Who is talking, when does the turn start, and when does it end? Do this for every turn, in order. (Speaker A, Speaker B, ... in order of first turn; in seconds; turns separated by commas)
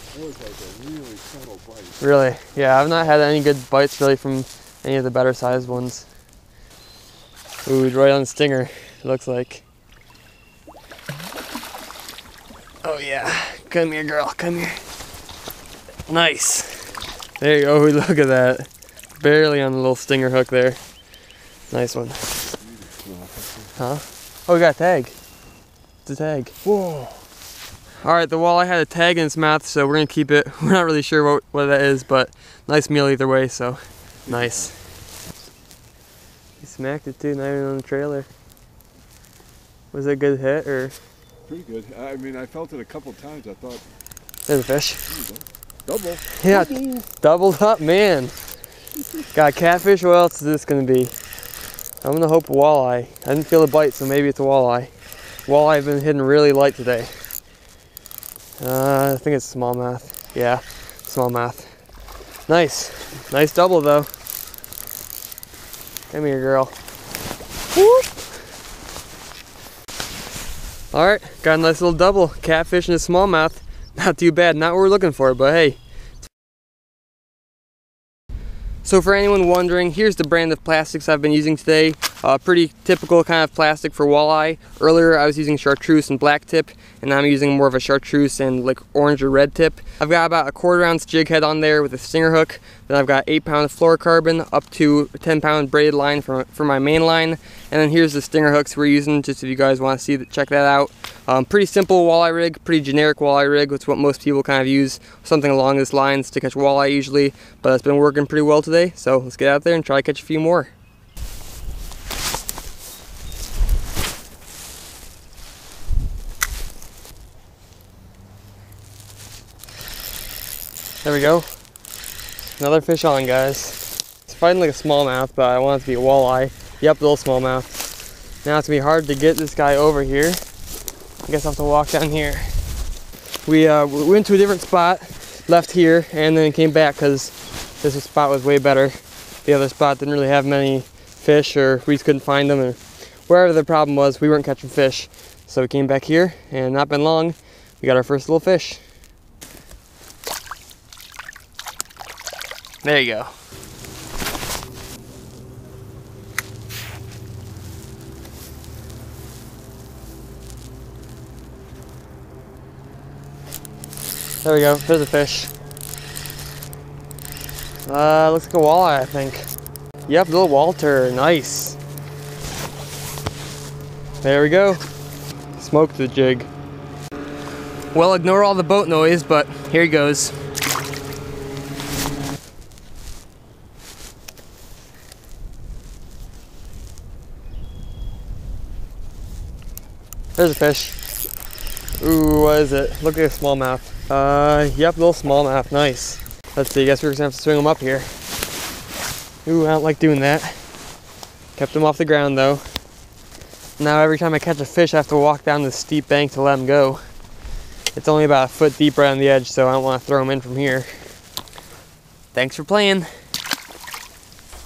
Speaker A: 0.1-2.0, Speaker B: 2.0-6.1, Speaker B: 7.7-9.6, Speaker B: 12.8-14.8, Speaker B: 16.1-20.8, Speaker B: 21.7-22.4, Speaker A: 22.7-23.7, Speaker B: 23.8-25.2, Speaker B: 26.0-26.5, Speaker A: 26.6-27.2, Speaker B: 28.0-34.8, Speaker A: 34.3-34.7, Speaker B: 36.6-38.3, Speaker B: 39.9-41.0, Speaker A: 41.5-43.9, Speaker B: 44.5-45.0, Speaker A: 45.1-47.0, Speaker B: 46.4-48.3, Speaker B: 49.3-51.1, Speaker B: 52.0-54.9, Speaker B: 55.5-57.1, Speaker B: 58.6-61.7, Speaker B: 62.5-64.1, Speaker B: 66.1-66.7, Speaker B: 67.7-68.3, Speaker B: 70.9-75.8, Speaker B: 78.8-110.7, Speaker B: 121.0-121.5, Speaker B: 122.6-127.7, Speaker B: 128.4-130.4, Speaker B: 131.2-132.5, Speaker B: 133.4-148.8, Speaker B: 152.8-153.3, Speaker B: 164.4-165.5, Speaker B: 167.8-169.5, Speaker B: 170.1-171.8, Speaker B: 174.2-174.8, Speaker B: 175.6-176.5, Speaker B: 177.9-180.4, Speaker B: 190.4-191.0, Speaker B: 192.0-198.1, Speaker B: 199.4-200.6, Speaker B: 201.6-202.6, Speaker B: 203.8-207.0, Speaker B: 207.9-210.9, Speaker B: 212.3-213.1